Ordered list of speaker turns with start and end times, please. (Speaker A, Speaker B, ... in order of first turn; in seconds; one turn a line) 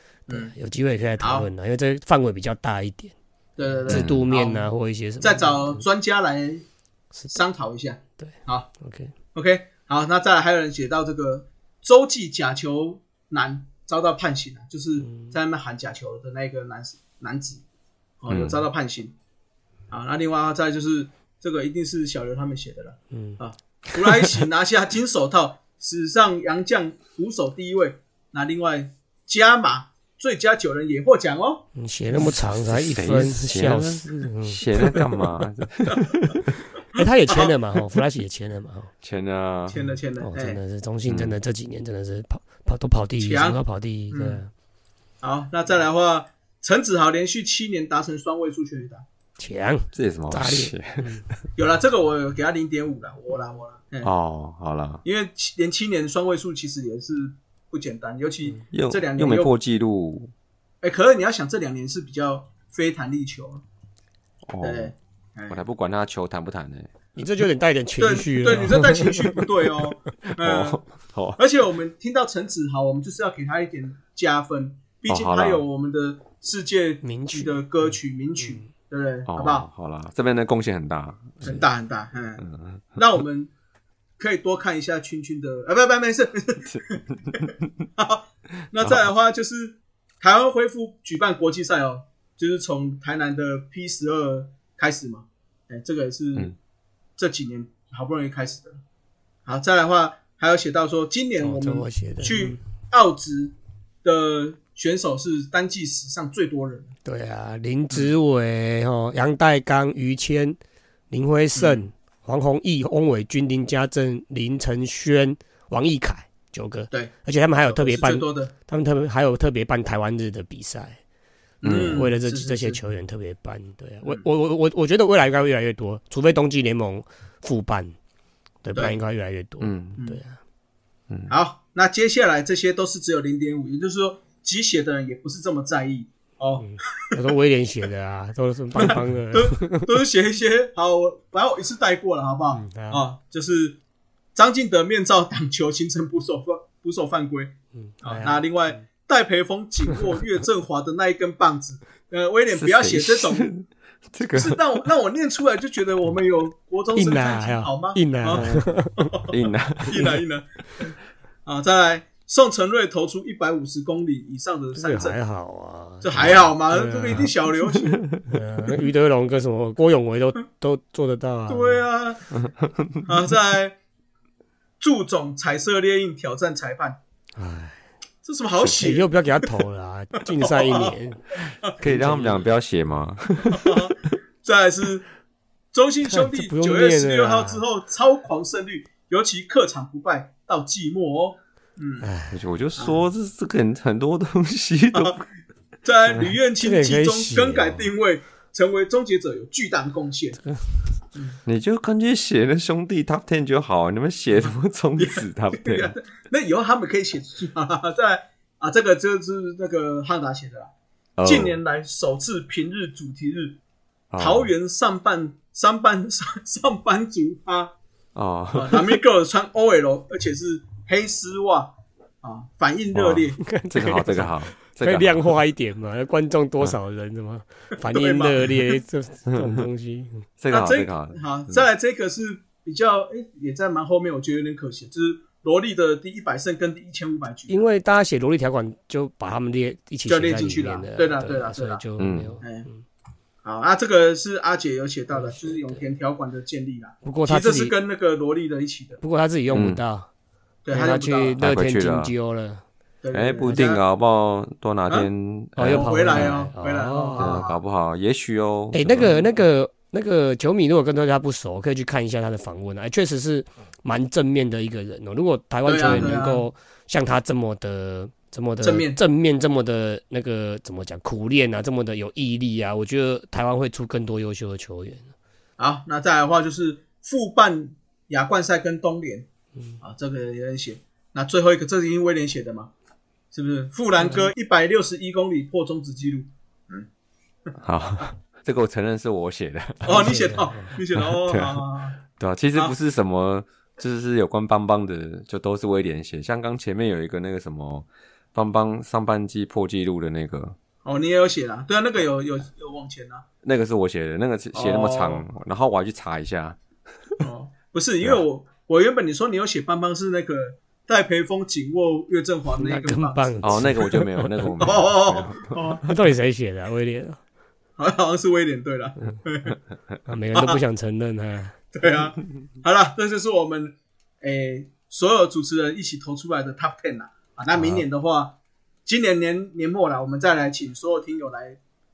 Speaker A: 0.3-0.5
Speaker B: 0.3-5.8
Speaker A: 1.2-1.5
Speaker A: 3.6-4.7
Speaker C: 3.9-4.2
Speaker A: 5.2-6.7
Speaker A: 7.3-8.7
Speaker B: 8.2-9.1
Speaker A: 9.3-17.6
Speaker B: 15.1-15.3
Speaker A: 18.2-19.1
Speaker C: 18.3-18.6
Speaker A: 19.9-31.6
Speaker B: 23.1-23.4
Speaker B: 31.8-35.2
Speaker C: 32.1-36.6
Speaker B: 36.9-38.9
Speaker A: 37.0-37.5
Speaker C: 39.0-39.8
Speaker A: 39.7-40.6
Speaker B: 39.9-44.5
Speaker C: 41.1-41.3
Speaker A: 43.2-43.6
Speaker A: 44.1-44.4
Speaker A: 45.2-49.0
Speaker B: 49.4-51.2
Speaker C: 50.0-51.2
Speaker A: 51.6-54.1
Speaker C: 54.0-55.0
Speaker A: 55.0-59.5
Speaker C: 58.7-60.3
Speaker A: 60.8-63.6
Speaker C: 64.5-64.9
Speaker A: 64.6-65.6
Speaker C: 65.5-66.9
Speaker B: 67.2-69.5
Speaker A: 68.0-70.8
Speaker C: 70.3-71.4
Speaker A: 71.4-79.7
Speaker C: 75.1-75.6
Speaker B: 77.0-77.6
Speaker B: 78.4-78.7
Speaker C: 79.3-81.6
Speaker A: 81.4-83.5
Speaker C: 82.4-82.8
Speaker A: 84.2-96.6
Speaker C: 86.7-87.7
Speaker A: 97.2-98.8
Speaker A: 99.5-106.9
Speaker B: 101.4-102.6
Speaker B: 107.0-110.6
Speaker B: 111.1-121.0
Speaker A: 111.5-111.9
Speaker A: 117.7-118.5
Speaker A: 121.6-122.8
Speaker C: 121.6-122.1
Speaker B: 121.7-128.0
Speaker B: 128.6-130.4
Speaker C: 129.6-130.0
Speaker A: 131.3-137.2
Speaker B: 136.6-139.9
Speaker A: 138.8-143.8
Speaker B: 142.5-143.0
Speaker A: 144.3-153.5
Speaker B: 147.8-148.4
Speaker C: 152.5-154.9
Speaker A: 154.3-158.5
Speaker B: 156.9-159.1
Speaker C: 158.3-160.2
Speaker A: 159.1-159.4
Speaker A: 159.9-160.9
Speaker A: 161.5-165.2
Speaker B: 164.8-167.3
Speaker A: 166.0-168.0
Speaker B: 168.3-171.8
Speaker A: 171.5-172.2
Speaker C: 172.6-173.0
Speaker A: 173.1-173.8
Speaker A: 174.8-177.0
Speaker B: 177.4-177.8
Speaker A: 178.2-179.5
Speaker B: 178.6-182.5
Speaker A: 180.2-181.0
Speaker C: 181.8-184.1
Speaker A: 183.5-185.1
Speaker A: 185.7-192.1
Speaker B: 186.1-187.6
Speaker B: 192.0-192.4
Speaker C: 192.3-195.2
Speaker A: 195.8-200.4
Speaker B: 196.6-197.9
Speaker C: 201.5-205.9
Speaker A: 205.0-210.7
Speaker C: 211.2-211.6
Speaker A: 211.2-213.6
Speaker C: 214.1-214.5
Speaker A: 214.2-217.7
Speaker C: 218.2-219.0
Speaker A: 218.5-223.4
Speaker C: 222.9-225.2
Speaker B: 223.4-230.3
Speaker A: 227.9-228.8
Speaker C: 229.3-229.6
Speaker C: 230.4-231.7
Speaker A: 230.5-237.6
Speaker B: 237.5-242.8
Speaker A: 240.1-241.8
Speaker C: 242.0-242.4
Speaker A: 242.4-242.7
Speaker A: 243.4-249.0
Speaker B: 245.1-245.8
Speaker B: 247.0-247.8
Speaker B: 249.0-250.1
Speaker C: 249.5-249.8
Speaker A: 250.7-251.4
Speaker B: 250.7-252.6
Speaker C: 251.4-252.1
Speaker A: 253.0-253.8
Speaker C: 253.1-256.4
Speaker B: 255.6-257.4
Speaker A: 255.7-257.6
Speaker C: 257.2-259.3
Speaker B: 258.7-275.1
Speaker A: 265.7-266.5
Speaker C: 265.8-266.1
Speaker A: 268.6-269.0
Speaker A: 275.6-279.3
Speaker A: 279.8-282.7
Speaker A: 283.3-286.9
Speaker B: 284.0-284.3
Speaker C: 287.6-290.2
Speaker A: 289.8-292.0
Speaker B: 289.9-290.8
Speaker C: 290.9-300.6
Speaker A: 300.9-303.2
Speaker C: 303.4-307.2
Speaker A: 304.5-305.2
Speaker A: 307.2-313.8
Speaker B: 312.6-314.3
Speaker C: 313.4-315.6
Speaker A: 314.6-315.9
Speaker B: 315.8-317.2
Speaker A: 317.8-319.6
Speaker B: 320.1-321.6
Speaker A: 320.3-320.6
Speaker A: 321.8-331.6
Speaker B: 327.6-327.8